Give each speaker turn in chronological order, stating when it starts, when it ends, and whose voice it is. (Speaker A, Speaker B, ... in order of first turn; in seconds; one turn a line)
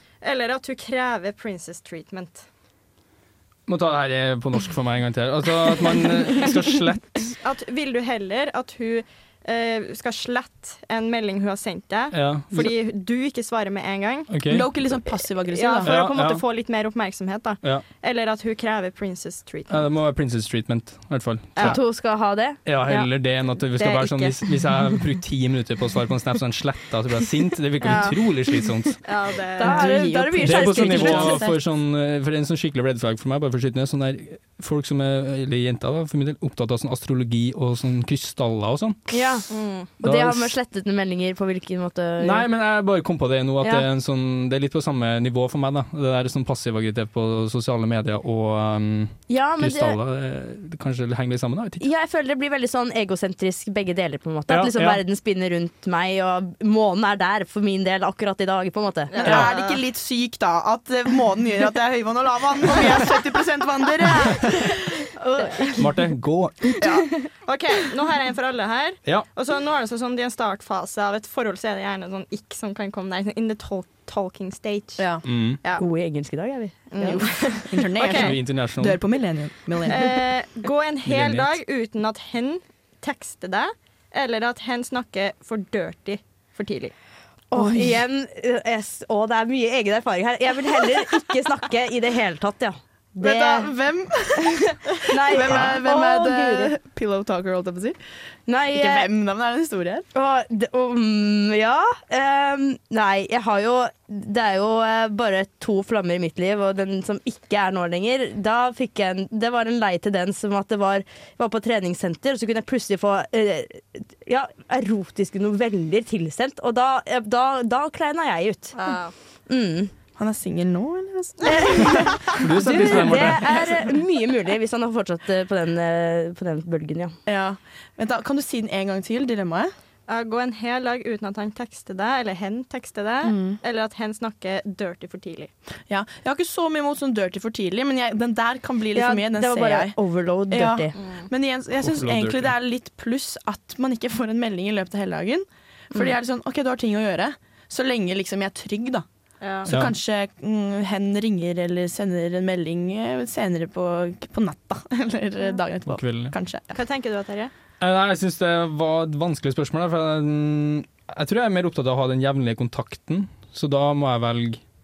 Speaker A: 0.2-2.5
Speaker B: 3.7-7.4
Speaker A: 7.4-14.3
Speaker B: 12.1-12.7
Speaker B: 14.3-14.7
Speaker C: 14.5-15.9
Speaker A: 15.5-19.9
Speaker B: 15.8-16.4
Speaker B: 19.7-21.8
Speaker D: 21.6-22.6
Speaker B: 22.6-29.0
Speaker A: 23.6-24.4
Speaker A: 27.9-28.1
Speaker A: 29.0-29.9
Speaker D: 29.6-31.5
Speaker C: 29.6-31.6
Speaker B: 30.4-39.1
Speaker D: 39.1-39.5
Speaker A: 39.5-39.9
Speaker D: 40.0-42.5
Speaker B: 40.0-40.5
Speaker B: 42.2-51.9
Speaker D: 43.6-43.9
Speaker D: 49.3-50.0
Speaker D: 51.8-59.4
Speaker B: 54.5-55.0
Speaker A: 59.1-59.8
Speaker C: 59.2-65.8
Speaker A: 62.8-63.1
Speaker B: 65.8-66.8
Speaker A: 66.8-75.8
Speaker C: 75.0-75.2
Speaker B: 75.2-75.6
Speaker D: 75.8-77.2
Speaker A: 76.9-78.4
Speaker C: 77.0-80.1
Speaker B: 78.1-79.0
Speaker A: 79.9-86.9
Speaker B: 81.0-81.6
Speaker D: 87.5-93.7
Speaker C: 87.5-88.0
Speaker C: 93.2-98.0
Speaker D: 94.4-96.7
Speaker D: 98.5-99.1
Speaker C: 98.7-100.1
Speaker D: 100.1-118.8
Speaker A: 118.8-119.1
Speaker D: 119.5-119.9
Speaker C: 120.2-123.9
Speaker D: 121.4-127.2
Speaker B: 122.3-123.7
Speaker C: 127.3-129.7
Speaker A: 130.1-135.5
Speaker C: 133.2-133.6
Speaker C: 135.9-140.0
Speaker D: 138.9-140.9
Speaker C: 140.5-149.1
Speaker A: 141.0-141.2
Speaker B: 141.8-142.5
Speaker A: 149.4-149.7
Speaker C: 149.6-156.7
Speaker B: 149.7-150.0
Speaker B: 155.9-156.3
Speaker A: 156.7-157.5
Speaker B: 157.8-164.6